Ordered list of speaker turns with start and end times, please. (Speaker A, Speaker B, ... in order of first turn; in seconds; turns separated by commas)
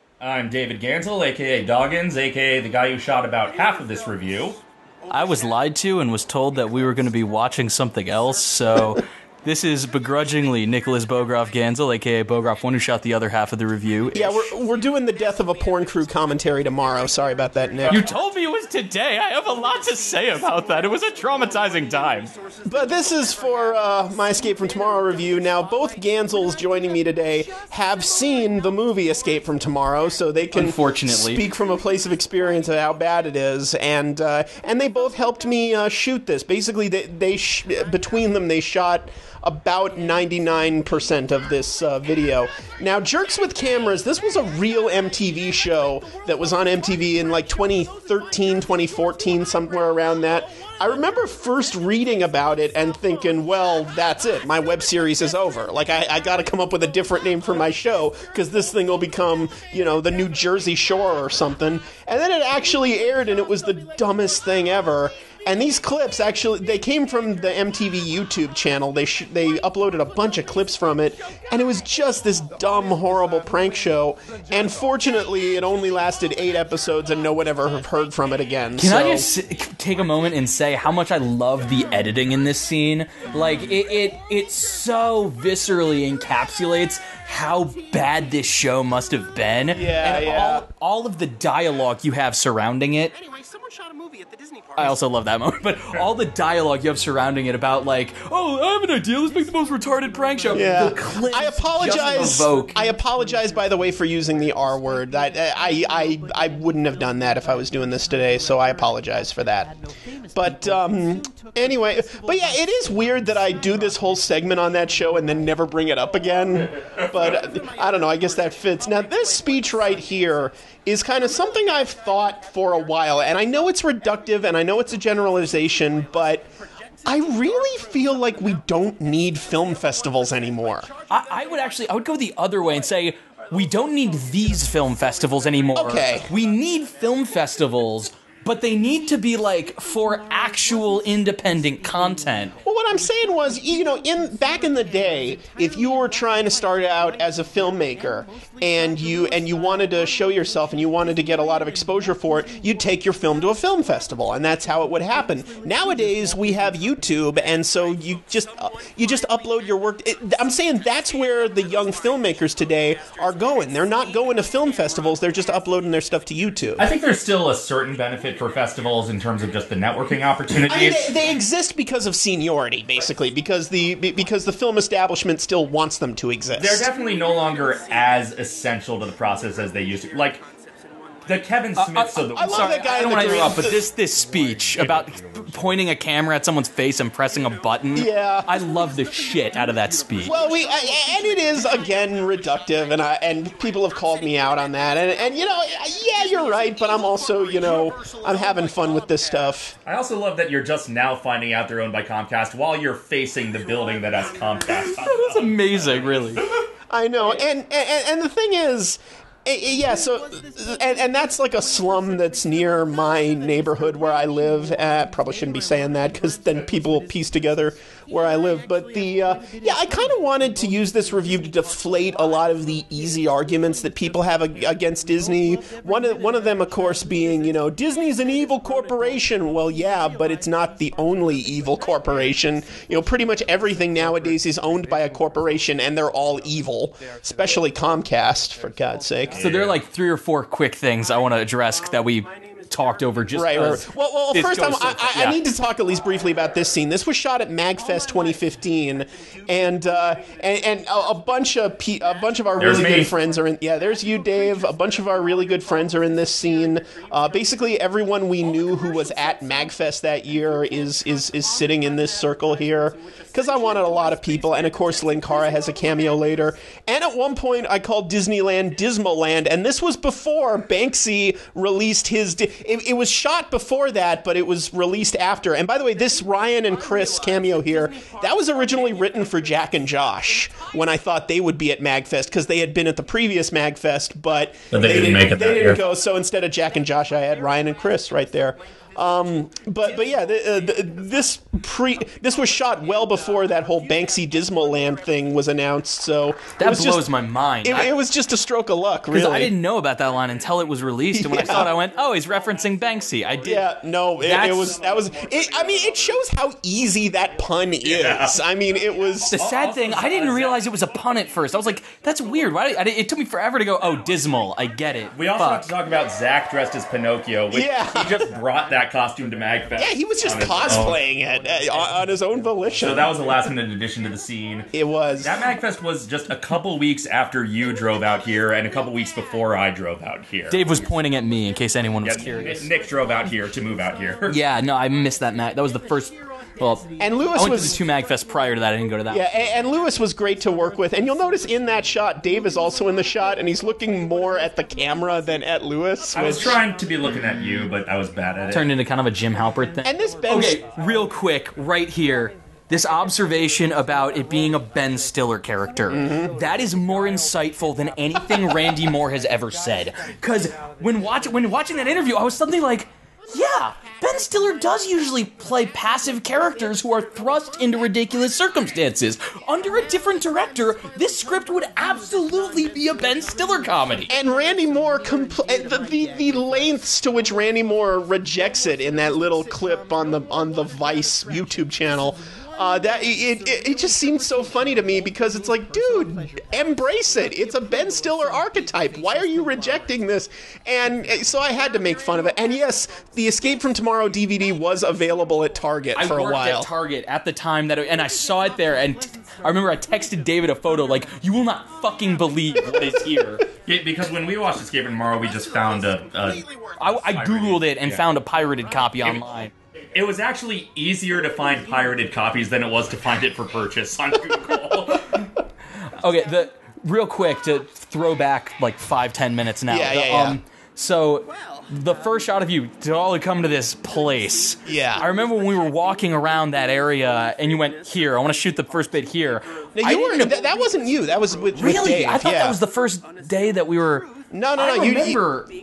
Speaker A: 0.2-4.6, Speaker B: 5.1-14.5, Speaker C: 14.1-18.1, Speaker B: 17.9-22.3, Speaker C: 22.6-79.3, Speaker B: 30.5-31.4, Speaker B: 78.8-93.1, Speaker C: 89.7-90.7, Speaker C: 93.1-95.0, Speaker B: 94.8-102.8, Speaker C: 100.5-109.8, Speaker C: 110.3-126.5, Speaker C: 127.0-130.9, Speaker B: 131.1-142.5, Speaker C: 135.7-136.3, Speaker C: 142.6-166.9, Speaker A: 166.8-171.2, Speaker C: 170.6-176.9, Speaker A: 176.6-180.4, Speaker A: 181.2-182.8, Speaker B: 181.7-190.4, Speaker C: 182.3-183.8, Speaker A: 184.8-185.0, Speaker C: 187.9-188.6, Speaker C: 190.2-199.7, Speaker A: 199.8-206.6, Speaker B: 204.7-206.4, Speaker C: 206.9-239.4, Speaker A: 239.3-239.8, Speaker B: 239.4-245.4, Speaker C: 243.3-297.1, Speaker A: 252.6-253.1, Speaker A: 284.7-285.8, Speaker B: 296.6-297.9, Speaker C: 297.6-299.5, Speaker B: 299.1-303.7, Speaker C: 301.1-301.7, Speaker C: 303.4-309.4, Speaker B: 304.2-304.8, Speaker A: 307.8-308.4, Speaker B: 309.3-315.7, Speaker A: 309.4-310.6, Speaker A: 315.1-321.0, Speaker C: 317.5-318.3, Speaker C: 319.8-323.2, Speaker A: 322.7-324.7, Speaker C: 324.7-325.4, Speaker A: 325.2-330.6, Speaker B: 330.5-332.7, Speaker A: 332.0-334.4, Speaker B: 334.3-339.3, Speaker C: 337.0-337.8, Speaker C: 339.1-346.6, Speaker A: 346.1-348.7, Speaker B: 348.5-374.1, Speaker C: 349.8-350.7, Speaker C: 355.9-356.3, Speaker C: 374.1-396.7, Speaker B: 395.9-403.4, Speaker A: 403.6-408.0, Speaker C: 406.2-406.7, Speaker B: 406.8-409.5, Speaker A: 409.0-409.3, Speaker A: 409.9-415.2, Speaker B: 415.8-430.5, Speaker C: 419.7-420.4, Speaker C: 424.6-425.1, Speaker C: 429.7-432.6, Speaker B: 431.5-435.5, Speaker C: 434.3-435.2